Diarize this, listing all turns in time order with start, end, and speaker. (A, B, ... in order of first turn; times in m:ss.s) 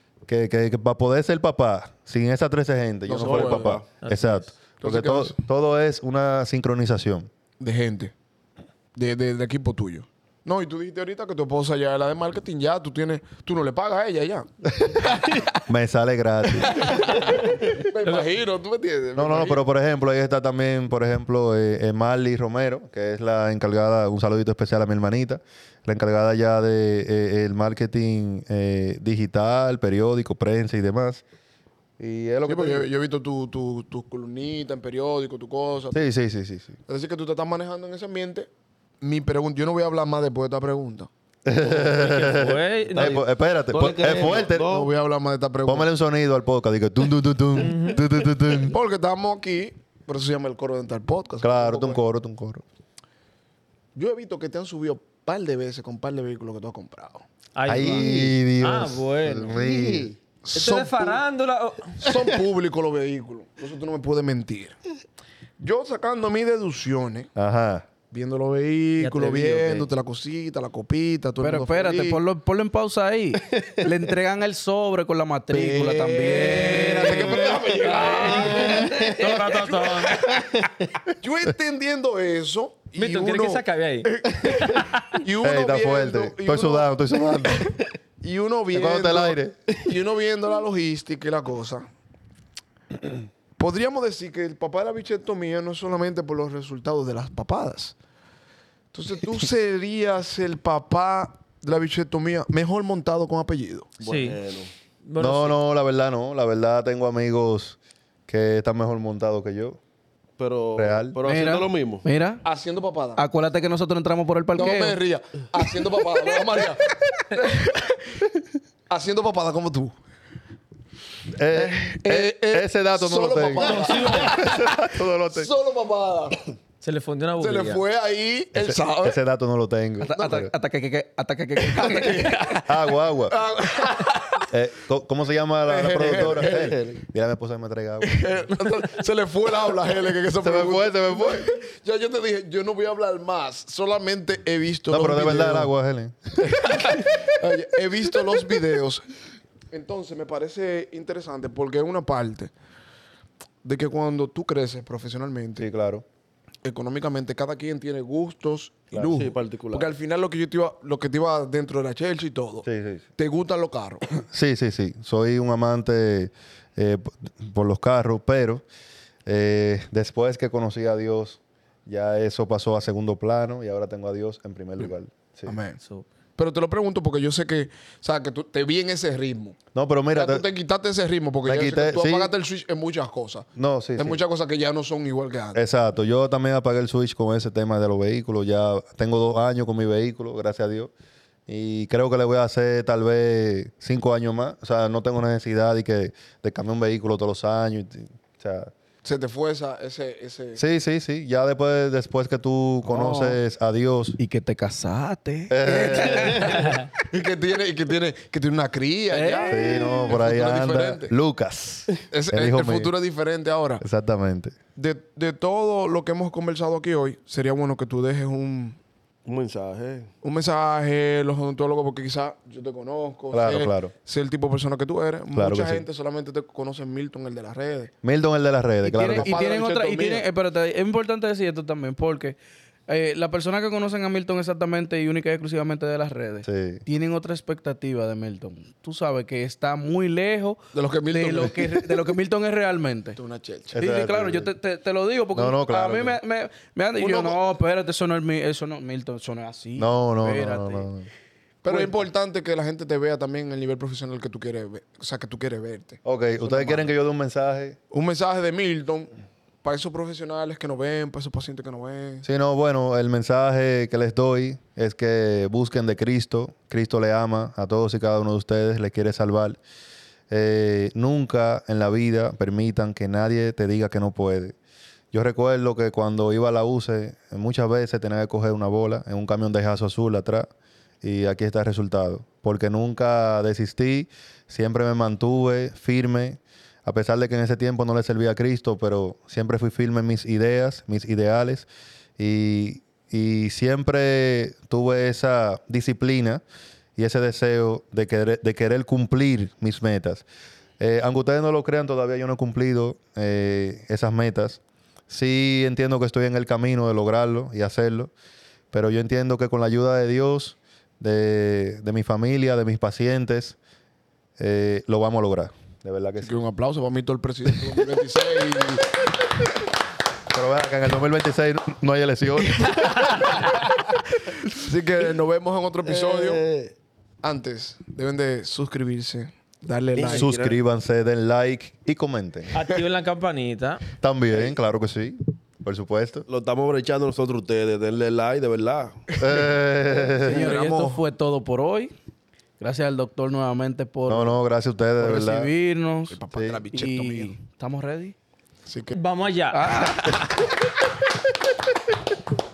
0:00.3-0:07.3 A
0:03.1-0:03.8 B
0:03.2-0:03.8 C
0:04.0-0:04.5 D
0:04.8-0:05.3 B
0:07.6-0:08.1 B
0:08.9-0:14.5 B
0:15.0-0:15.4 B
0:15.6-0:17.1 A
0:16.6-0:19.6 B
0:18.0-0:18.3 D
0:19.1-0:31.2 A
0:32.0-0:32.8 A
0:32.4-0:36.0 B
0:35.9-0:36.8 A
0:36.8-0:38.5 B
0:39.0-0:41.1 B
0:41.4-0:44.6 A
0:41.8-0:43.2 D
0:42.9-0:44.9 C
0:44.6-0:45.9 B
0:45.6-0:48.8 A
0:47.5-0:48.0 D
0:48.6-0:52.0 B
0:51.4-0:52.6 A
0:53.9-0:57.2 B
0:57.6-0:59.6 D
0:57.7-1:00.1 A
0:59.5-1:00.2 C
1:00.4-1:01.2 B
1:00.5-1:02.1 D
1:02.0-1:04.8 B
1:05.6-1:07.3 B
1:07.4-1:07.9 A
1:08.1-1:12.2 B
1:09.2-1:09.8 D
1:11.4-1:17.6 E
1:13.5-1:13.9 C
1:15.5-1:20.4 B
1:16.7-1:19.4 C
1:18.3-1:20.4 D
1:20.1-1:20.8 C
1:21.2-1:26.8 B
1:23.0-1:24.9 D
1:25.4-1:27.7 A
1:27.6-1:31.8 B
1:28.7-1:29.5 A
1:33.6-1:37.9 B
1:38.9-1:43.9 B
1:44.0-1:44.7 C
1:44.0-1:44.4 D
1:45.0-1:45.6 D
1:45.2-1:47.8 A
1:48.3-1:49.8 A
1:50.4-1:52.0 C
1:50.7-1:51.2 A
1:51.2-1:52.4 E
1:52.4-1:53.2 B
1:53.2-1:55.0 E
1:54.6-1:58.2 B
1:58.9-1:59.9 B
2:01.4-2:05.5 A
2:01.5-2:06.5 B
2:03.5-2:04.4 D
2:06.8-2:07.8 D
2:07.4-2:09.2 B
2:08.5-2:10.5 A
2:10.0-2:12.6 E
2:11.7-2:12.7 B
2:12.7-2:13.4 A
2:13.3-2:14.4 B
2:14.5-2:18.5 A
2:15.7-2:16.7 B
2:16.4-2:17.0 C
2:18.0-2:25.7 B
2:20.4-2:21.5 A
2:24.9-2:26.7 A
2:26.4-2:29.0 B
2:29.7-2:32.5 B
2:33.6-2:35.6 B
2:35.6-2:36.0 A
2:36.6-2:42.6 B
2:39.1-2:39.9 C
2:42.6-2:43.0 A
2:43.2-2:44.0 B
2:44.1-2:48.6 A
2:49.2-2:55.5 A
2:55.4-2:55.8 B
2:55.8-2:56.0 D
2:56.4-2:59.6 B
2:59.7-3:00.4 A
3:00.1-3:05.6 B
3:01.4-3:02.3 A
3:03.6-3:04.2 A
3:05.5-3:10.9 A
3:11.5-3:18.7 A
3:19.0-3:20.6 B
3:20.6-3:24.2 A
3:22.8-3:23.4 E
3:24.2-3:26.8 E
3:25.5-3:26.6 A
3:27.0-3:31.1 B
3:29.1-3:30.2 E
3:29.5-3:32.9 A
3:32.1-3:33.8 B
3:33.8-3:34.6 A
3:34.8-3:38.8 B
3:39.2-3:40.1 C
3:40.2-3:47.9 B
3:43.3-3:43.9 A
3:45.3-3:45.8 A
3:48.0-3:49.4 A
3:48.8-3:52.4 E
3:49.1-3:50.2 B
3:52.9-4:03.2 E
3:56.4-3:56.8 A
4:00.7-4:02.0 B
4:03.2-4:03.8 B
4:03.7-4:10.9 E
4:03.7-4:04.5 A
4:05.3-4:06.2 A
4:07.0-4:07.4 B
4:09.8-4:11.1 A
4:11.6-4:16.8 B
4:11.7-4:11.9 E
4:16.0-4:17.8 A
4:17.9-4:19.1 B
4:19.6-4:22.2 B
4:22.2-4:29.6 A
4:30.3-4:34.6 A
4:35.1-4:40.5 A
4:41.0-4:51.7 A
4:52.2-4:56.4 A
4:57.0-5:00.2 A
5:00.8-5:08.1 A
5:08.7-5:13.6 A
5:14.4-5:16.3 A
5:16.2-5:19.0 B
5:20.3-5:23.3 A
5:23.1-5:23.5 B
5:24.5-5:26.4 B
5:25.8-5:26.7 C
5:27.2-5:30.3 B
5:29.9-5:30.6 C
5:30.1-5:32.5 A
5:32.5-5:33.8 D
5:34.0-5:36.3 A
5:36.3-5:39.0 C
5:39.2-5:40.5 A
5:40.2-5:41.9 E
5:40.2-5:41.0 B
5:42.6-5:44.4 E
5:44.1-5:45.5 A
5:45.0-5:46.2 E
5:46.1-5:47.3 B
5:46.3-5:46.6 A
5:46.7-5:48.1 E
5:48.6-5:48.9 B
5:48.9-5:49.9 D
5:49.5-5:50.3 E